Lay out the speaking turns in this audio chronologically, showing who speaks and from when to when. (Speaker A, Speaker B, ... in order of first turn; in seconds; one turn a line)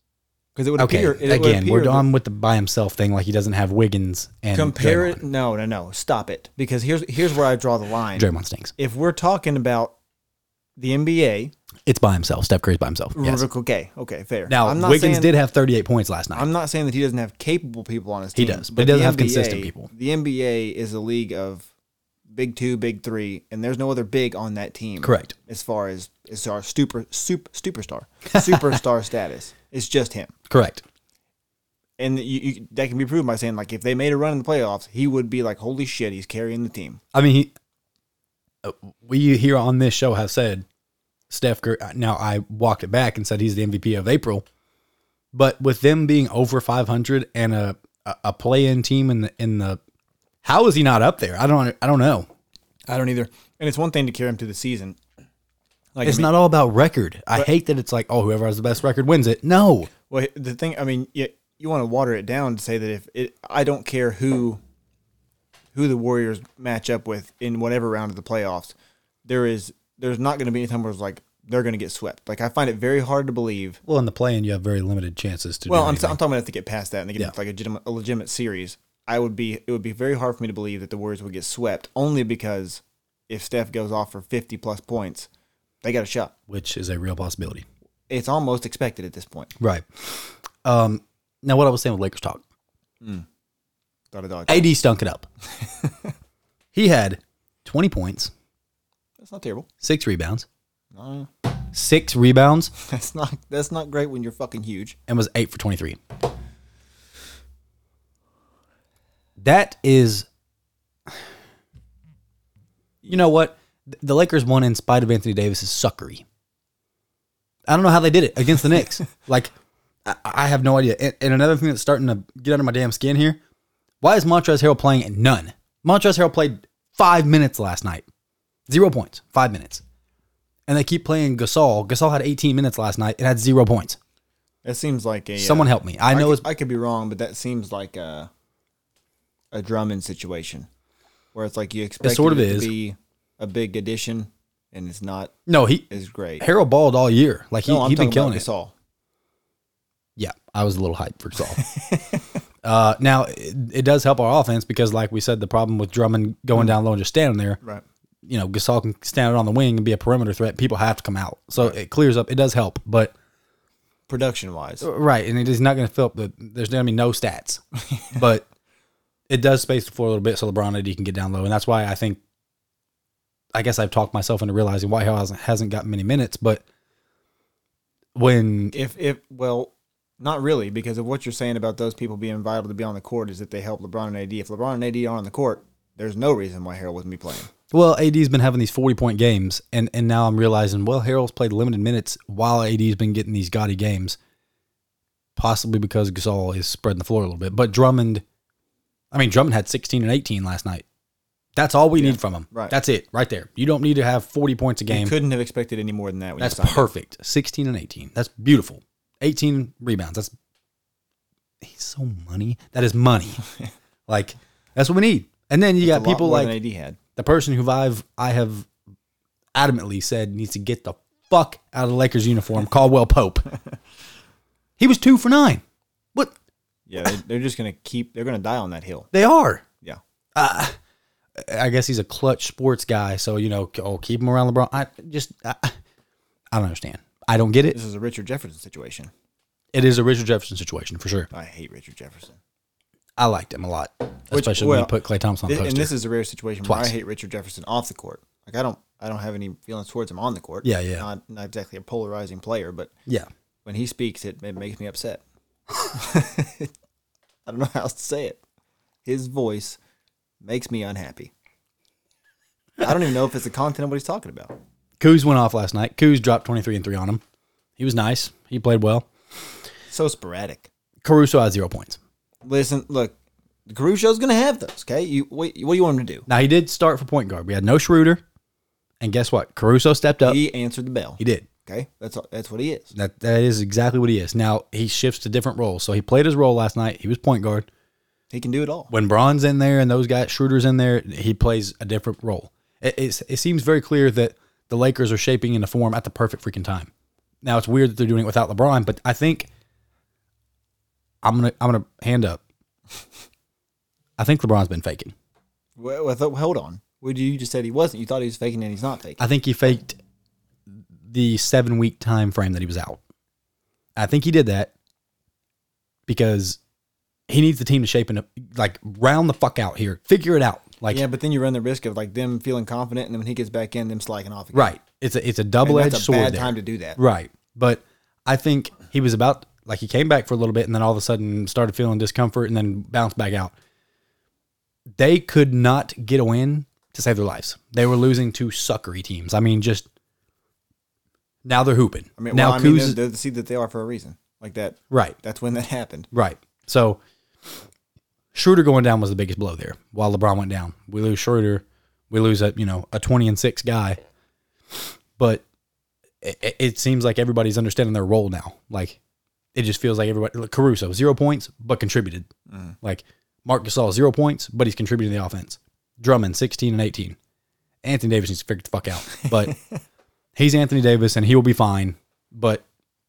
Speaker A: 0.6-2.0
Speaker B: 0.8-5.2
Speaker A: 4.5-9.9
Speaker B: 8.2-8.7
Speaker A: 10.8-11.5
Speaker B: 11.9-13.4
Speaker A: 13.1-15.3
Speaker B: 14.5-16.5
Speaker A: 16.3-21.7
Speaker B: 18.3-19.9
Speaker A: 22.3-30.3
Speaker B: 25.0-25.3
Speaker B: 28.3-28.8
Speaker B: 30.5-30.8
Speaker A: 32.0-37.0
Speaker B: 37.1-37.5
Speaker B: 38.6-40.6
Speaker B: 41.3-44.5
Speaker B: 45.3-49.8
Speaker B: 50.4-52.3
Speaker A: 52.9-55.0
Speaker A: 56.0-56.3
Speaker B: 56.0-59.9
Speaker A: 60.1-64.6
Speaker A: 65.7-73.8
Speaker B: 73.9-76.2
Speaker A: 75.7-85.3
Speaker A: 85.8-86.3
Speaker B: 86.5-87.7
Speaker A: 88.1-89.5
Speaker B: 89.6-92.4
Speaker A: 93.0-93.3
Speaker A: 94.1-94.7
Speaker B: 94.5-95.3
Speaker A: 95.6-96.1
Speaker B: 96.7-98.3
Speaker A: 99.2-99.7
Speaker B: 99.8-100.5
Speaker A: 100.9-101.3
Speaker B: 101.7-102.7
Speaker A: 102.8-105.0
Speaker B: 105.1-106.0
Speaker B: 109.4-110.3
Speaker B: 113.1-116.2
Speaker B: 117.7-119.5
Speaker B: 120.0-123.4
Speaker B: 124.0-128.1
Speaker B: 128.7-129.8
Speaker B: 130.7-134.0
Speaker A: 134.6-138.3
Speaker B: 135.4-136.4
Speaker A: 139.5-140.7
Speaker A: 141.3-145.3
Speaker B: 142.0-142.7
Speaker B: 145.5-145.9
Speaker A: 145.9-146.4
Speaker B: 146.4-148.4
Speaker A: 147.6-148.7
Speaker B: 150.2-151.6
Speaker A: 151.4-152.3
Speaker B: 152.6-157.6
Speaker B: 158.2-163.1
Speaker A: 164.1-164.9
Speaker B: 164.8-168.4
Speaker B: 169.3-172.2
Speaker B: 173.5-176.6
Speaker B: 178.1-178.7
Speaker A: 178.7-187.5
Speaker B: 187.7-194.2
Speaker B: 195.4-198.2
Speaker B: 199.1-200.8
Speaker B: 201.6-205.1
Speaker A: 201.9-202.8
Speaker A: 204.9-206.9
Speaker B: 206.4-210.3
Speaker B: 211.6-213.4
Speaker B: 214.1-216.5
Speaker A: 215.8-217.0
Speaker B: 217.2-218.7
Speaker B: 219.6-223.5
Speaker B: 224.8-225.6
Speaker A: 226.9-229.1
Speaker B: 229.1-229.6
Speaker B: 230.3-230.7
Speaker B: 231.4-235.8
Speaker B: 236.5-237.8
Speaker A: 237.7-239.1
Speaker B: 239.7-241.3
Speaker A: 241.3-242.4
Speaker B: 243.2-245.9
Speaker A: 244.3-244.9
Speaker A: 245.4-252.9
Speaker B: 246.6-246.9
Speaker B: 250.6-251.1
Speaker A: 253.6-255.2
Speaker A: 255.9-256.7
Speaker A: 257.4-258.4
Speaker A: 259.1-259.8
Speaker A: 260.4-261.3
Speaker A: 262.8-264.6
Speaker B: 265.0-267.2
Speaker B: 267.8-269.1
Speaker A: 269.9-270.7
Speaker B: 271.0-272.0
Speaker A: 272.4-273.2
Speaker A: 273.7-276.3
Speaker B: 276.3-278.2
Speaker B: 279.0-280.4
Speaker A: 280.2-282.9
Speaker B: 281.2-281.5
Speaker B: 282.9-287.7
Speaker A: 288.3-288.9
Speaker B: 288.9-296.9
Speaker B: 297.4-299.5
Speaker B: 301.2-302.4
Speaker B: 304.2-305.1
Speaker A: 305.8-309.2
Speaker B: 309.2-310.0
Speaker B: 311.1-313.0
Speaker B: 313.9-314.7
Speaker B: 316.1-316.6
Speaker B: 317.3-321.0
Speaker A: 320.9-324.8
Speaker B: 324.5-333.5
Speaker A: 325.6-327.0
Speaker B: 334.9-339.9
Speaker B: 341.4-343.0
Speaker A: 342.2-346.1
Speaker B: 344.9-345.2
Speaker B: 346.1-347.0
Speaker B: 348.3-354.0
Speaker B: 355.2-355.4
Speaker B: 356.2-359.0
Speaker B: 359.6-362.3
Speaker A: 362.5-362.7
Speaker B: 362.8-367.2
Speaker B: 367.8-369.6
Speaker A: 369.1-369.8
Speaker B: 370.4-372.6